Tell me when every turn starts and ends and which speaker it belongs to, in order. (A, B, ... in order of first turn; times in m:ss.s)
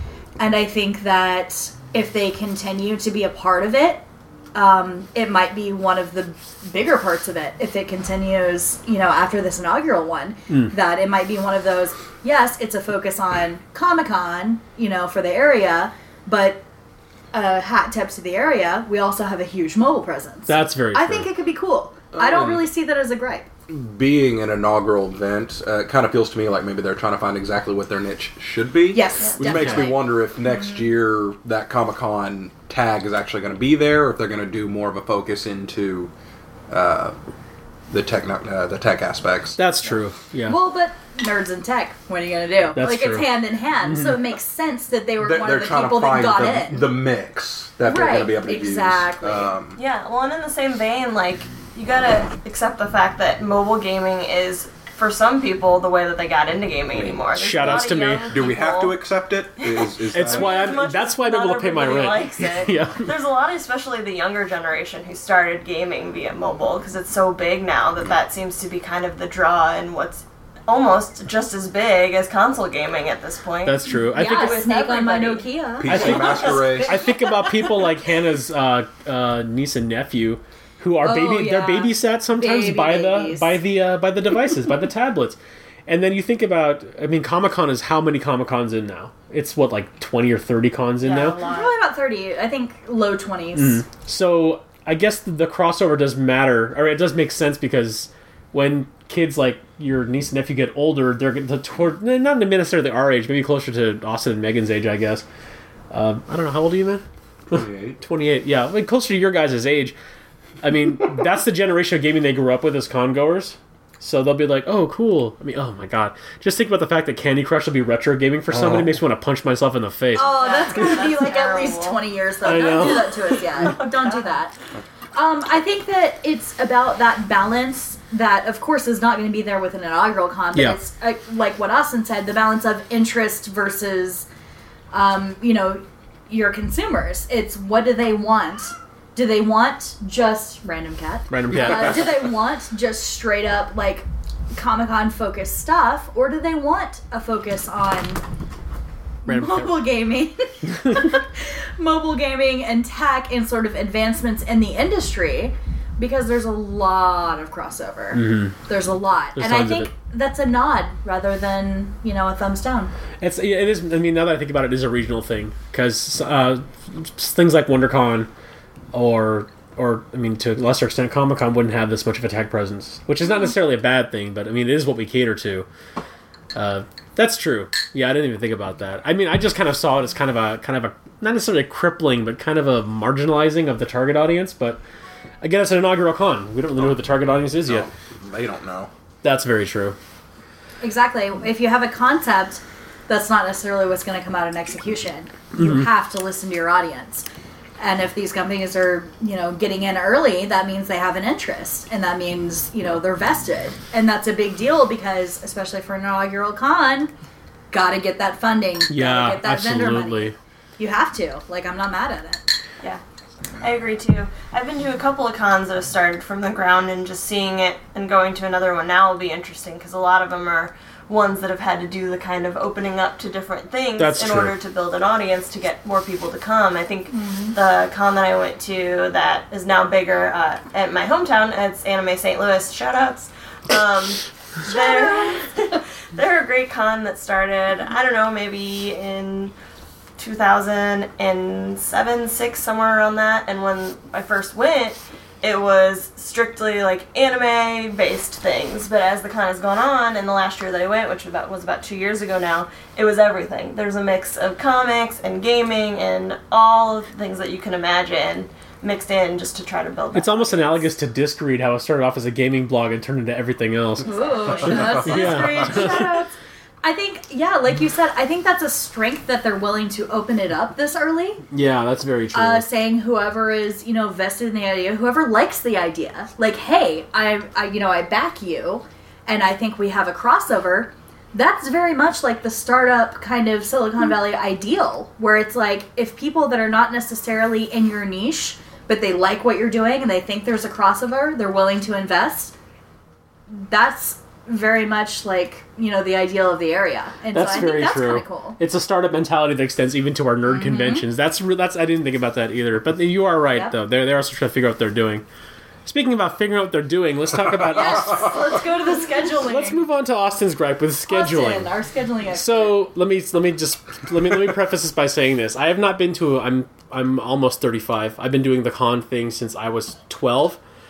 0:00.4-0:16.6 A
0:17.3-0:23.4 A
0:20.5-0:21.3 B
0:22.1-0:22.6 C
0:23.7-0:36.1 C
0:28.9-0:30.0 A
0:29.4-0:29.9 B
0:36.7-0:37.1 C
0:37.9-0:39.6 C
0:39.6-0:40.6 B
0:40.5-0:46.9 A
0:42.8-0:43.3 B
0:43.9-0:44.2 B
0:45.2-0:49.8 C
0:47.8-0:49.5 A
0:49.8-0:59.0 D
0:56.9-1:00.7 C
0:57.4-0:58.3 B
0:59.6-1:17.4 D
1:00.1-1:03.1 B
1:13.6-1:14.6 B
1:14.1-1:16.5 A
1:15.8-1:17.0 C
1:15.9-1:31.4 B
1:21.0-1:23.6 A
1:31.0-1:31.7 D
1:31.4-1:33.8 A
1:33.5-1:45.2 B
1:45.9-1:49.9 B
1:47.5-1:48.0 C
1:50.6-2:00.8 B
1:58.5-1:59.0 C
2:00.1-2:02.0 D
2:00.1-2:04.6 A
2:02.4-2:03.2 B
2:02.6-2:04.4 D
2:05.1-2:14.3 A
2:10.5-2:10.8 B
2:14.9-2:28.2 A
2:21.3-2:22.3 B
2:29.2-2:42.9 A
2:29.2-2:29.7 B
2:38.1-2:38.5 B
2:39.4-2:39.9 B
2:43.2-2:48.3 B
2:48.9-2:55.7 B
2:56.5-3:04.8 B
3:05.4-3:07.9 B
3:07.6-3:08.9 C
3:09.2-3:10.0 B
3:10.8-3:17.3 A
3:17.8-3:27.1 A
3:27.7-3:32.4 A
3:28.9-3:30.4 B
3:33.6-3:59.5 D
3:44.0-3:44.5 B
3:47.1-3:47.5 A
3:54.7-3:55.5 A
4:00.2-4:20.9 D
4:20.1-4:24.1 B
4:24.0-4:31.4 A
4:24.6-4:26.1 B
4:24.7-4:25.7 C
4:31.5-4:32.6 B
4:32.3-4:52.5 A
4:53.5-4:58.6 A
4:57.3-5:05.2 B
5:00.5-5:01.0 A
5:05.8-5:08.4 B
5:07.7-5:09.8 A
5:09.4-5:11.7 B
5:11.1-5:12.8 A
5:12.3-5:20.6 B